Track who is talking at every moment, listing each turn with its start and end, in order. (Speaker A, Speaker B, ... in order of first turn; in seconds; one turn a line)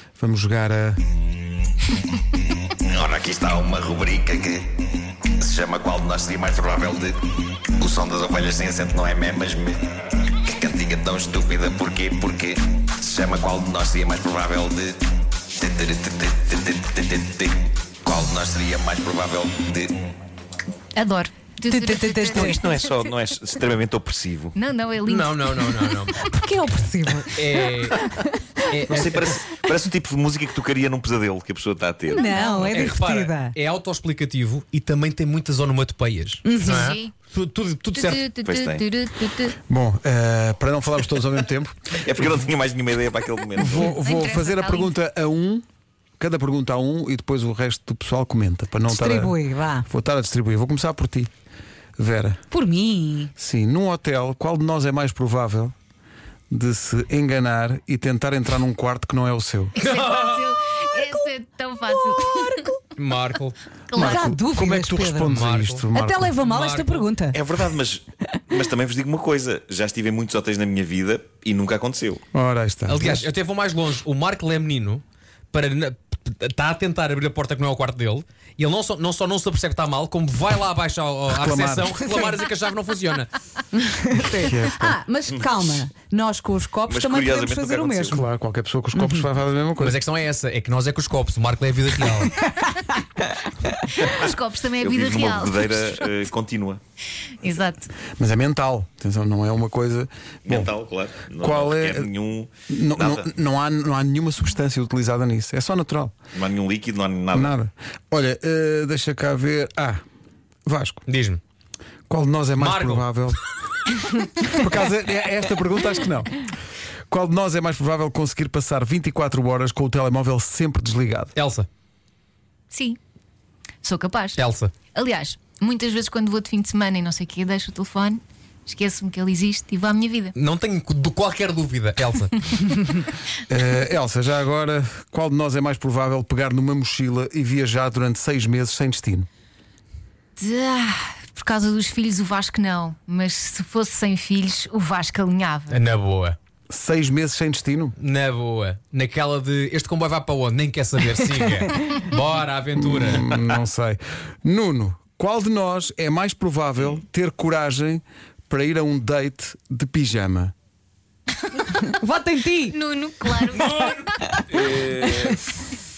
Speaker A: 0.2-1.0
Speaker B: 2.9-4.7
Speaker B: 5.4-7.1
Speaker C: 5.7-7.0
Speaker B: 7.8-9.8
Speaker C: 7.9-9.4
Speaker B: 10.5-14.7
Speaker C: 10.6-14.9
Speaker B: 15.6-17.5
Speaker C: 15.6-16.8
Speaker B: 18.0-19.9
Speaker C: 18.3-19.7
Speaker D: 20.9-23.1
Speaker E: 21.7-22.6
Speaker B: 22.3-24.6
Speaker D: 24.5-26.2
Speaker F: 25.1-26.1
Speaker E: 26.1-28.4
Speaker F: 27.3-28.0
Speaker F: 28.7-29.4
Speaker B: 28.9-32.2
Speaker D: 32.1-32.7
Speaker E: 32.1-33.5
Speaker F: 32.7-38.2
Speaker E: 36.4-36.9
Speaker D: 36.6-37.1
Speaker D: 37.9-39.6
Speaker B: 38.4-38.9
Speaker A: 39.7-41.9
Speaker B: 42.0-43.9
Speaker A: 43.6-45.6
Speaker D: 43.9-44.9
Speaker A: 46.2-51.3
Speaker E: 48.9-49.9
Speaker A: 52.0-52.4
Speaker E: 52.5-53.3
Speaker A: 53.4-55.7
Speaker A: 56.5-59.7
Speaker D: 59.7-62.6
Speaker F: 59.8-60.5
Speaker E: 60.9-61.3
Speaker E: 61.9-62.8
Speaker F: 62.9-63.6
Speaker D: 63.9-64.3
Speaker A: 63.9-66.4
Speaker E: 64.0-67.4
Speaker F: 65.3-65.8
Speaker F: 66.4-67.1
Speaker B: 67.3-72.2
Speaker A: 72.3-73.3
Speaker F: 72.9-83.3
Speaker A: 81.3-82.3
Speaker E: 83.7-88.2
Speaker A: 84.3-85.0
Speaker B: 86.9-88.2
Speaker A: 88.1-90.0
Speaker E: 88.9-89.3
Speaker F: 89.8-92.3
Speaker E: 92.6-93.0
Speaker D: 94.0-96.2
Speaker B: 94.0-96.8
Speaker D: 97.4-97.9
Speaker A: 98.2-100.7
Speaker B: 100.5-103.3
Speaker A: 101.4-102.1
Speaker A: 102.7-106.2
Speaker B: 106.3-107.5
Speaker A: 107.3-110.0
Speaker A: 110.7-111.0
Speaker F: 111.0-111.4
Speaker A: 112.1-113.4
Speaker F: 112.5-113.1
Speaker A: 114.5-116.4
Speaker A: 117.1-121.3
Speaker F: 121.3-121.7
Speaker D: 122.7-123.0
Speaker D: 123.8-130.3
Speaker F: 124.4-124.7
Speaker F: 130.3-132.8
Speaker A: 133.5-139.3
Speaker D: 140.4-145.8
Speaker F: 145.7-146.4
Speaker A: 146.7-147.9
Speaker F: 148.0-153.6
Speaker A: 152.8-160.5
Speaker D: 161.5-161.8
Speaker E: 161.8-162.8
Speaker D: 162.7-164.4
Speaker F: 163.5-164.0
Speaker E: 164.2-164.7
Speaker B: 164.5-165.6